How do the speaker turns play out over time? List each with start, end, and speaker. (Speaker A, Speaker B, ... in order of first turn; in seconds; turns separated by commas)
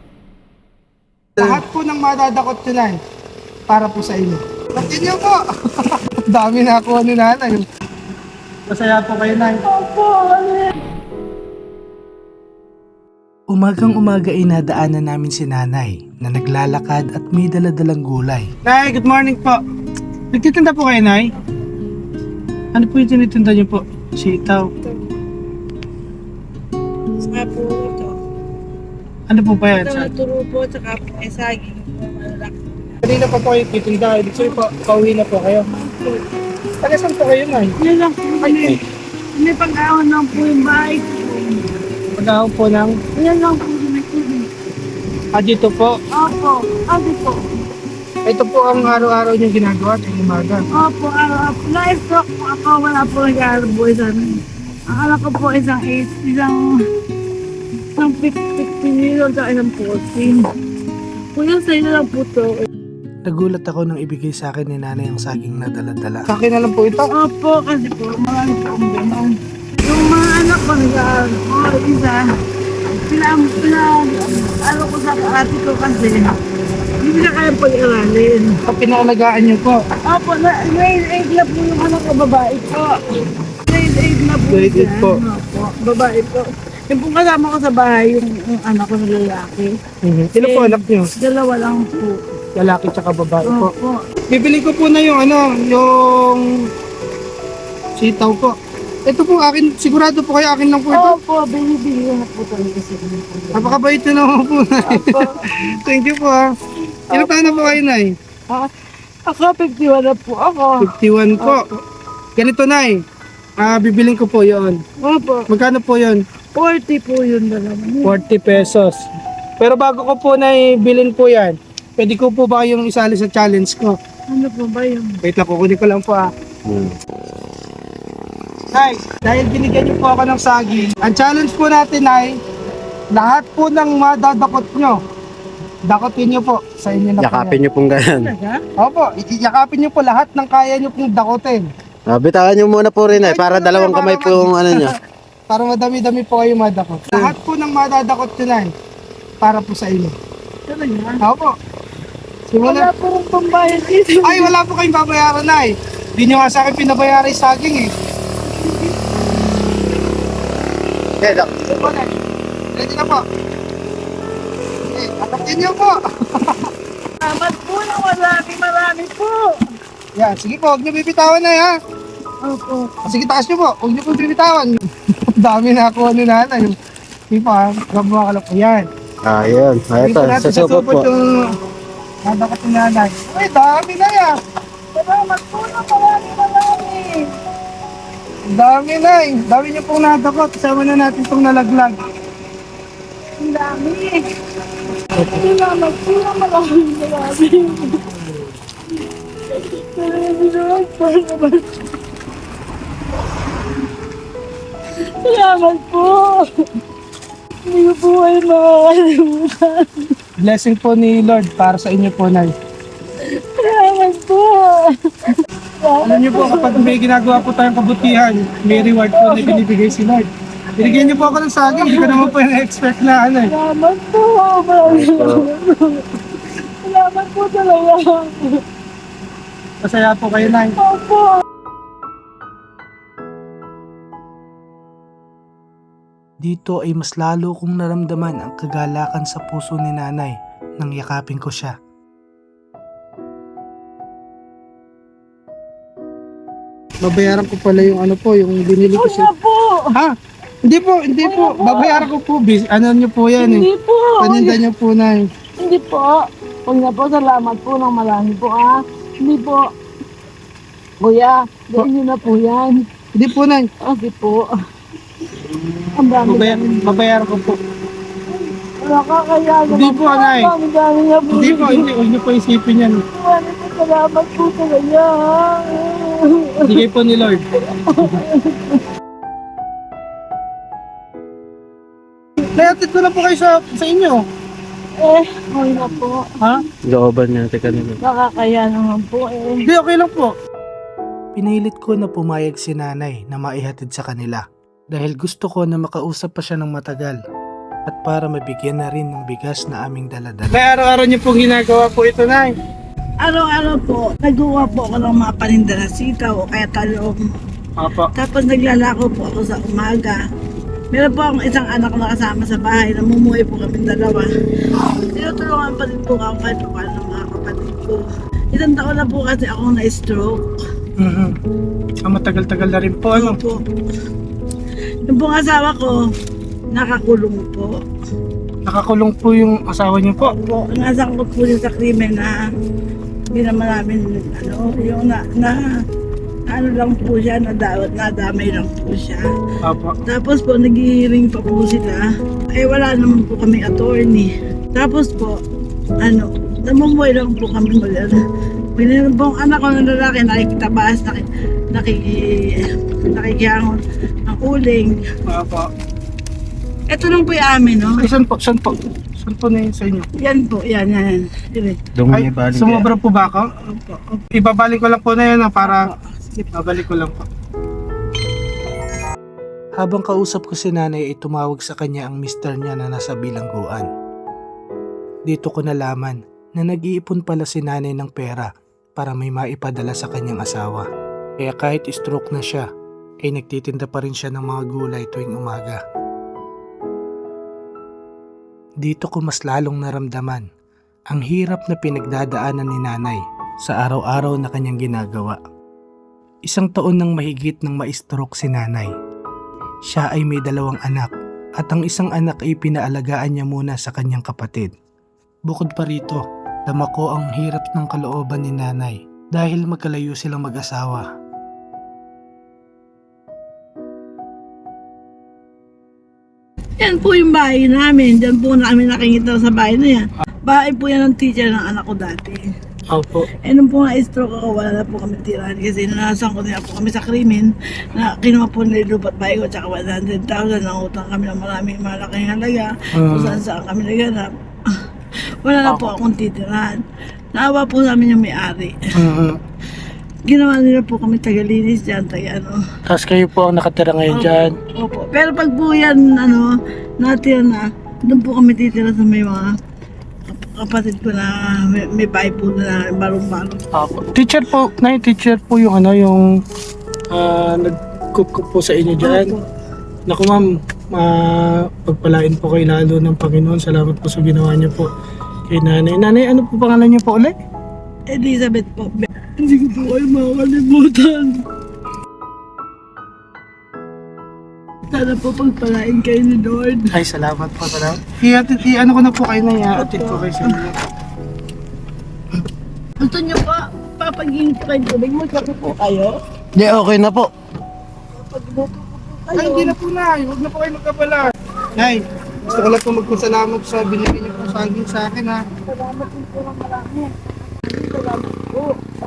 Speaker A: 1.4-3.0, Speaker A: 3.7-7.7, Speaker A: 8.7-9.6, Speaker B: 9.6-10.7, Speaker C: 13.5-18.5, Speaker A: 18.6-19.6, Speaker A: 20.3-21.3, Speaker A: 22.7-24.7, Speaker B: 27.2-28.1, Speaker A: 29.3-30.1, Speaker B: 29.7-33.0, Speaker A: 33.0-35.7, Speaker B: 34.4-34.7, Speaker B: 35.7-36.2, Speaker A: 36.8-37.7, Speaker B: 37.8-38.8, Speaker A: 38.4-38.8, Speaker B: 39.4-41.7, Speaker A: 42.1-43.0, Speaker B: 43.2-44.5, Speaker A: 45.3-46.0, Speaker B: 46.2-47.4, Speaker A: 48.3-50.6, Speaker B: 50.8-54.3, Speaker B: 54.9-56.6, Speaker B: 58.0-60.4, Speaker B: 61.4-62.6, Speaker C: 63.2-66.2, Speaker A: 66.3-67.1, Speaker B: 67.1-69.3, Speaker B: 69.8-72.2, Speaker B: 72.9-76.3, Speaker B: 77.0-78.6, Speaker A: 78.7-79.8, Speaker B: 80.1-82.9, Speaker B: 83.7-89.7, Speaker A: 84.5-85.2, Speaker A: 90.0-91.1, Speaker B: 90.4-92.2, Speaker A: 92.6-93.7, Speaker B: 93.5-94.0, Speaker A: 94.3-96.4, Speaker A: 98.0-98.5, Speaker A: 99.1-101.2, Speaker B: 100.9-103.8, Speaker A: 103.5-106.4, Speaker B: 104.8-105.7, Speaker B: 107.1-107.8, Speaker A: 107.1-108.1, Speaker B: 109.3-110.9, Speaker A: 110.8-111.7, Speaker A: 112.4-113.0, Speaker A: 113.6-114.8, Speaker B: 115.0-115.5, Speaker A: 115.5-116.2, Speaker B: 116.6-118.2, Speaker A: 118.0-119.0, Speaker A: 119.6-124.0, Speaker B: 124.3-125.2, Speaker A: 125.2-126.3, Speaker D: 126.7-127.0, Speaker A: 128.7-132.3, Speaker A: 133.1-134.9, Speaker A: 135.9-137.6, Speaker D: 137.2-138.3, Speaker B: 138.2-138.6, Speaker A: 138.8-141.7, Speaker D: 142.1-144.9, Speaker A: 143.1-144.9, Speaker A: 145.5-148.7, Speaker A: 149.4-150.1, Speaker B: 150.7-151.2, Speaker A: 151.2-151.5, Speaker A: 152.5-152.9, Speaker B: 152.6-154.5, Speaker A: 154.2-157.9, Speaker B: 158.5-159.1, Speaker A: 161.2-162.0, Speaker B: 161.6-162.0, Speaker A: 162.8-163.2, Speaker A: 164.9-166.7, Speaker B: 167.2-169.6, Speaker A: 170.2-171.7, Speaker B: 172.4-172.9, Speaker A: 173.1-174.8, Speaker A: 175.4-176.8, Speaker A: 177.3-178.9, Speaker D: 179.2-181.1, Speaker A: 180.0-181.3, Speaker A: 182.2-184.3, Speaker B: 184.9-187.3, Speaker A: 188.5-191.9, Speaker B: 193.4-194.2, Speaker B: 195.3-198.0, Speaker B: 199.5-201.7, Speaker B: 205.2-206.5, Speaker B: 207.7-210.1, Speaker A: 210.4-212.5, Speaker B: 213.2-216.9, Speaker A: 216.0-223.5, Speaker B: 218.7-219.6, Speaker B: 220.8-222.3, Speaker B: 223.5-226.1, Speaker D: 224.8-225.4, Speaker B: 226.8-228.6, Speaker A: 229.8-230.8, Speaker B: 230.6-231.4, Speaker C: 236.4-241.7, Speaker A: 247.0-249.3, Speaker B: 248.9-249.7, Speaker A: 250.7-253.7, Speaker B: 251.2-252.1, Speaker B: 253.4-254.6, Speaker A: 254.2-255.2, Speaker B: 255.6-259.7, Speaker B: 261.0-262.8, Speaker A: 263.1-263.7, Speaker B: 263.8-264.5, Speaker B: 265.9-266.9, Speaker A: 266.2-267.6, Speaker B: 268.3-271.9, Speaker A: 269.7-270.5, Speaker A: 271.3-273.0, Speaker B: 273.1-276.8, Speaker A: 276.6-277.4, Speaker B: 277.6-278.8, Speaker A: 282.6-284.2, Speaker B: 285.0-286.3, Speaker D: 286.9-288.0, Speaker B: 288.0-289.6, Speaker A: 289.6-290.3, Speaker C: 291.4-294.4, Speaker C: 294.9-297.2, Speaker C: 297.9-300.6, Speaker A: 300.5-302.5, Speaker B: 303.2-307.3, Speaker A: 307.8-308.1, Speaker B: 308.1-310.2, Speaker B: 310.9-314.3, Speaker B: 315.1-320.4, Speaker C: 321.0-321.3, Speaker A: 322.1-323.4, Speaker B: 323.1-323.6, Speaker B: 325.0-326.0, Speaker B: 326.7-327.7, Speaker A: 329.1-330.3, Speaker B: 330.2-332.4, Speaker B: 333.3-335.7, Speaker B: 336.5-339.3, Speaker A: 339.6-340.0, Speaker B: 340.1-345.4, Speaker B: 346.0-348.2, Speaker B: 348.8-355.0, Speaker A: 355.3-355.7, Speaker B: 356.9-358.0, Speaker A: 358.0-360.1, Speaker B: 360.2-361.8, Speaker D: 361.9-362.9, Speaker A: 362.1-363.5, Speaker B: 363.7-364.2, Speaker A: 364.3-365.8, Speaker B: 365.6-366.5, Speaker A: 366.5-367.2, Speaker C: 369.8-373.9, Speaker C: 375.3-380.9, Speaker C: 381.4-382.7, Speaker C: 383.2-385.8, Speaker C: 388.8-390.4, Speaker C: 391.1-395.4, Speaker C: 396.5-398.9, Speaker C: 399.9-401.1, Speaker C: 401.6-404.7, Speaker C: 405.5-411.1, Speaker B: 416.8-422.4, Speaker B: 423.4-434.3, Speaker C: 433.0-433.4, Speaker B: 435.4-436.8, Speaker C: 435.7-435.9, Speaker B: 437.3-438.8, Speaker C: 439.0-439.3, Speaker B: 440.3-442.6, Speaker C: 442.9-444.5, Speaker B: 444.1-449.5, Speaker B: 450.3-453.6, Speaker C: 453.8-456.1, Speaker A: 453.9-454.9, Speaker A: 457.3-459.3, Speaker B: 459.0-459.4, Speaker A: 460.1-460.4, Speaker A: 461.0-464.9, Speaker C: 465.5-467.3, Speaker A: 465.7-467.1, Speaker B: 468.1-471.4, Speaker B: 474.9-476.9, Speaker C: 476.9-478.0, Speaker A: 478.0-480.8, Speaker B: 479.8-480.5, Speaker B: 483.0-486.2, Speaker D: 486.6-487.3, Speaker B: 488.1-489.7, Speaker A: 489.4-495.4, Speaker B: 495.7-498.8